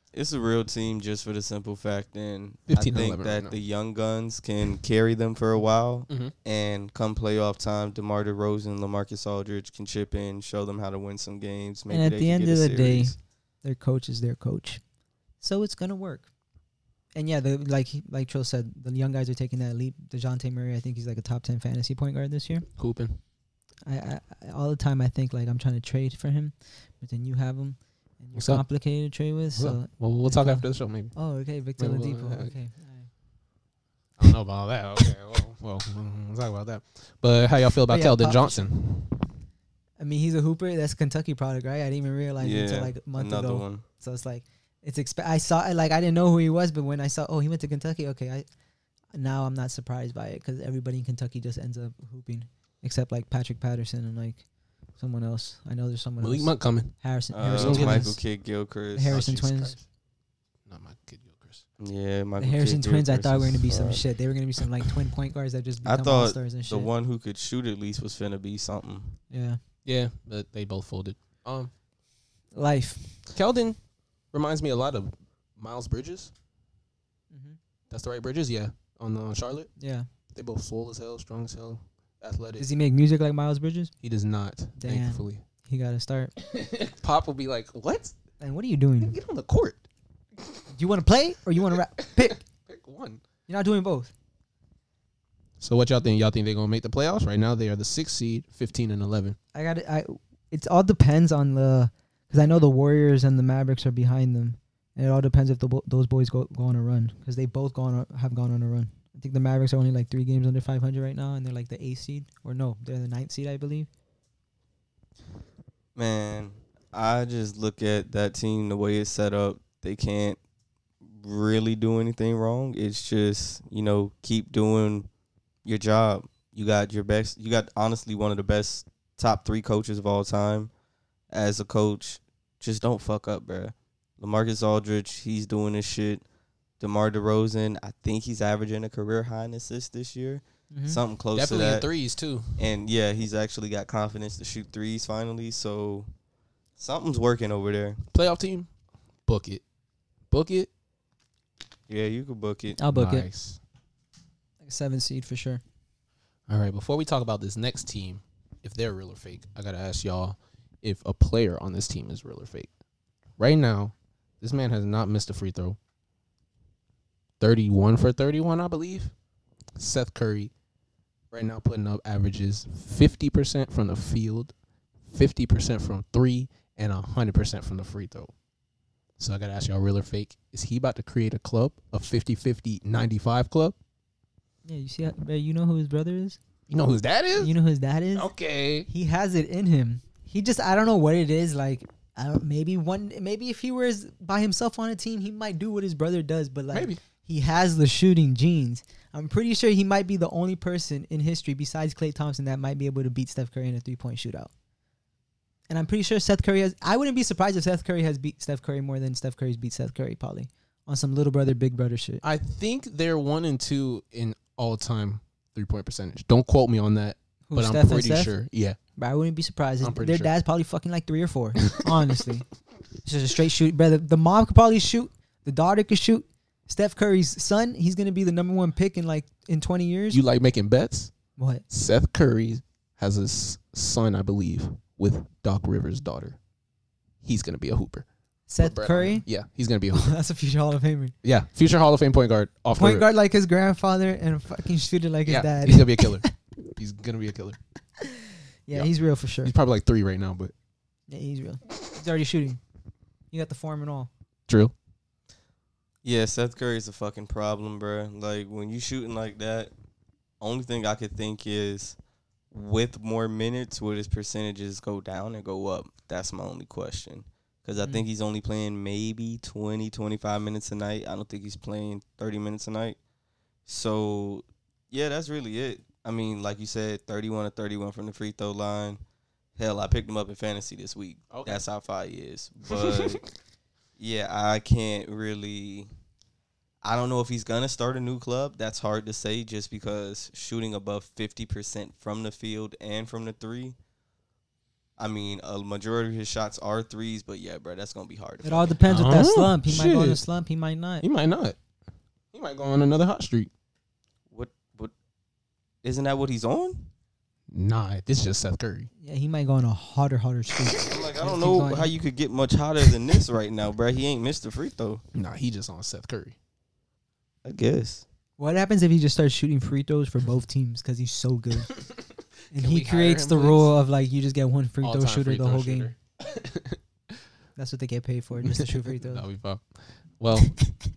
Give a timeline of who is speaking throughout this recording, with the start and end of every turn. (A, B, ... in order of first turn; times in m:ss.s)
0:00.1-0:13.2 A
0:02.7-0:03.6 B
0:06.1-0:06.3 B
0:11.9-0:14.8 C
0:15.4-0:16.3 C
0:17.1-0:22.7 C
0:22.8-0:23.2 B
0:23.8-0:33.1 C
0:28.4-0:28.6 B
0:29.6-0:31.2 B
0:31.8-0:32.5 B
0:34.2-0:39.2 B
0:37.9-0:38.6 C
0:40.0-0:48.4 C
0:42.4-0:43.8 A
0:49.1-0:54.4 C
0:55.0-0:58.2 C
0:56.2-0:56.9 B
0:57.3-0:59.2 A
0:57.5-0:58.1 B
0:58.9-0:59.8 C
0:59.1-0:59.8 B
1:00.7-1:01.6 B
1:01.8-1:04.0 A
1:02.4-1:06.9 C
1:05.8-1:09.2 A
1:09.3-1:09.6 C
1:09.8-1:11.7 B
1:12.5-1:13.0 C
1:13.3-1:13.8 B
1:14.3-1:16.3 B
1:17.3-1:17.6 C
1:17.9-1:19.7 B
1:19.8-1:20.1 C
1:20.3-1:22.7 B
1:22.6-1:23.9 C
1:24.0-1:25.4 B
1:24.8-1:26.3 C
1:26.4-1:28.1 B
1:28.4-1:29.2 C
1:29.0-1:29.8 B
1:30.7-1:32.4 C
1:32.0-1:33.2 B
1:33.5-1:34.1 C
1:35.6-1:39.4 B
1:39.5-1:53.9 C
1:56.0-2:00.4 A
2:01.1-2:05.1 A
2:05.6-2:10.7 A
2:11.3-2:16.2 A
2:16.8-2:21.9 A
2:20.7-2:21.0 C
2:21.3-2:22.7 B
2:22.6-2:26.1 A
2:26.8-2:28.0 A
2:28.1-2:28.7 B
2:29.3-2:29.6 B
2:30.3-2:30.7 B
2:31.9-2:32.8 A
2:32.8-2:33.3 C
2:32.9-2:33.6 B
2:34.6-2:35.6 C
2:36.5-2:42.7 B
2:43.4-2:45.8 B
2:47.4-2:49.1 B
2:49.8-2:50.5 B
2:51.3-2:54.5 B
2:55.1-2:58.3 B
2:59.2-3:03.8 B
3:04.6-3:06.4 C
3:06.7-3:07.5 B
3:07.4-3:08.3 C
3:08.1-3:08.9 B
3:08.9-3:24.5 C
3:16.7-3:17.0 B
3:25.7-3:32.2 C
3:32.2-3:38.8 B
3:37.5-3:38.3 C
3:39.0-3:42.4 C
3:39.8-3:40.3 B
3:43.0-3:50.2 C
3:50.1-3:51.1 B
3:51.4-3:51.6 C
3:51.7-3:56.4 B
3:57.2-3:58.0 B
3:58.5-3:59.2 C
3:58.6-4:00.2 B
3:59.9-4:01.1 C
4:01.2-4:03.0 B
4:02.8-4:06.3 C
4:05.3-4:07.6 B
4:08.0-4:09.5 C
4:09.4-4:10.5 B
4:11.1-4:12.6 C
4:13.3-4:14.1 C
4:14.5-4:14.7 B
4:16.0-4:19.7 A
4:20.4-4:22.0 A
4:22.5-4:33.0 A
4:33.7-4:39.0 A
4:39.6-4:43.2 A
4:41.3-4:41.6 B
4:42.7-4:43.2 B
4:44.0-4:45.9 A
4:46.8-4:53.8 A
4:55.0-4:58.8 A
4:58.4-5:01.0 C
4:58.9-5:00.2 B
5:01.0-5:01.6 B
5:02.3-5:03.5 B
5:04.3-5:04.9 A
5:05.8-5:06.9 A
5:07.5-5:08.9 B
5:09.0-5:11.9 C
5:10.8-5:15.0 A
5:15.1-5:16.4 B
5:17.4-5:18.0 A
5:18.4-5:21.7 C
5:22.5-5:25.9 C
5:22.5-5:23.7 B
5:24.8-5:26.8 B
5:27.6-5:29.2 C
5:28.4-5:30.7 B